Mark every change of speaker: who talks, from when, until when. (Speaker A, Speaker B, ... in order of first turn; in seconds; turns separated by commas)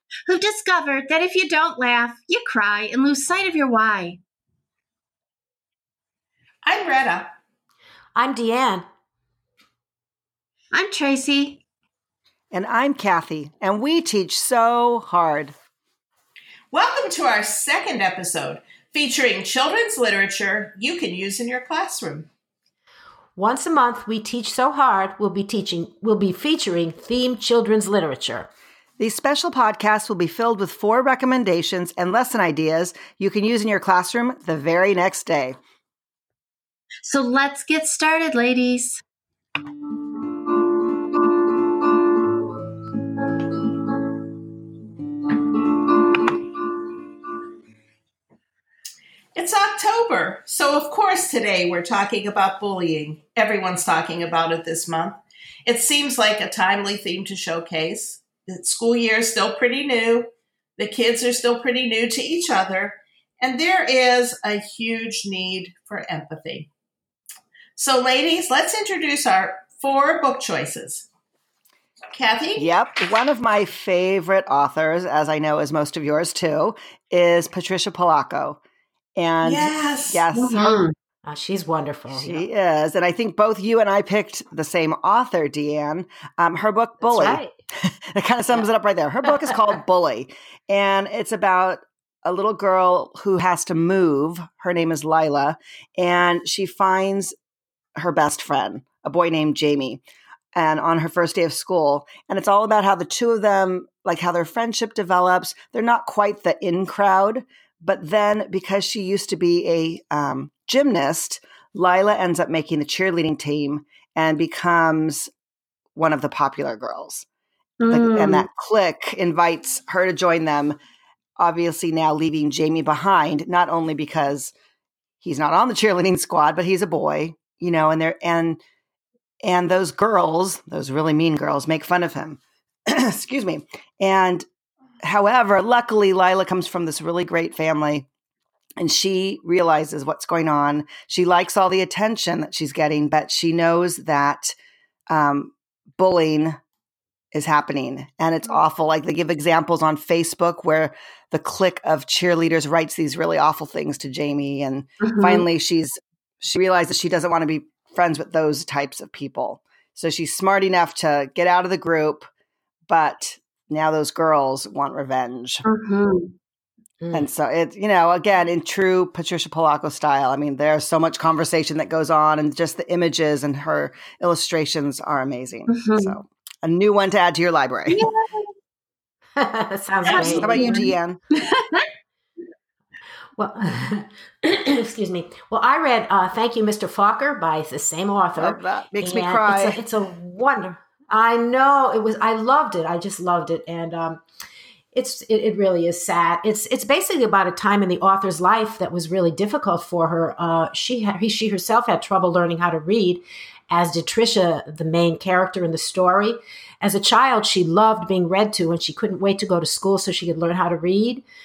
Speaker A: 0.3-4.2, Speaker B: 6.6-7.3, Speaker C: 8.2-8.8, Speaker A: 10.7-11.6, Speaker D: 12.5-15.5, Speaker B: 16.7-22.3, Speaker C: 23.4-28.5, Speaker D: 29.0-35.6, Speaker A: 37.0-39.0, Speaker B: 49.4-66.7, Speaker B: 67.8-71.0, Speaker B: 72.1-72.7, Speaker D: 72.6-78.6, Speaker D: 79.2-80.8, Speaker B: 79.4-80.2, Speaker A: 80.3-80.9, Speaker C: 81.2-82.4, Speaker D: 82.1-97.3, Speaker C: 87.0-87.5, Speaker D: 98.0-100.0, Speaker D: 100.5-115.3, Speaker D: 116.0-117.2, Speaker A: 117.8-118.5, Speaker D: 117.9-120.8, Speaker D: 121.4-124.5, Speaker D: 125.2-128.6, Speaker D: 129.4-134.4, Speaker D: 135.0-138.1, Speaker D: 138.8-144.5, Speaker D: 145.1-146.6, Speaker D: 147.3-162.3, Speaker A: 155.0-155.4, Speaker D: 162.9-165.6, Speaker A: 165.6-166.3, Speaker C: 167.0-167.3, Speaker D: 167.1-178.0, Speaker A: 175.7-176.2, Speaker A: 177.9-178.5, Speaker C: 179.3-180.7, Speaker B: 180.1-180.4, Speaker A: 180.1-181.8, Speaker D: 180.1-181.2, Speaker C: 183.4-194.2, Speaker D: 188.4-189.8, Speaker C: 194.9-211.2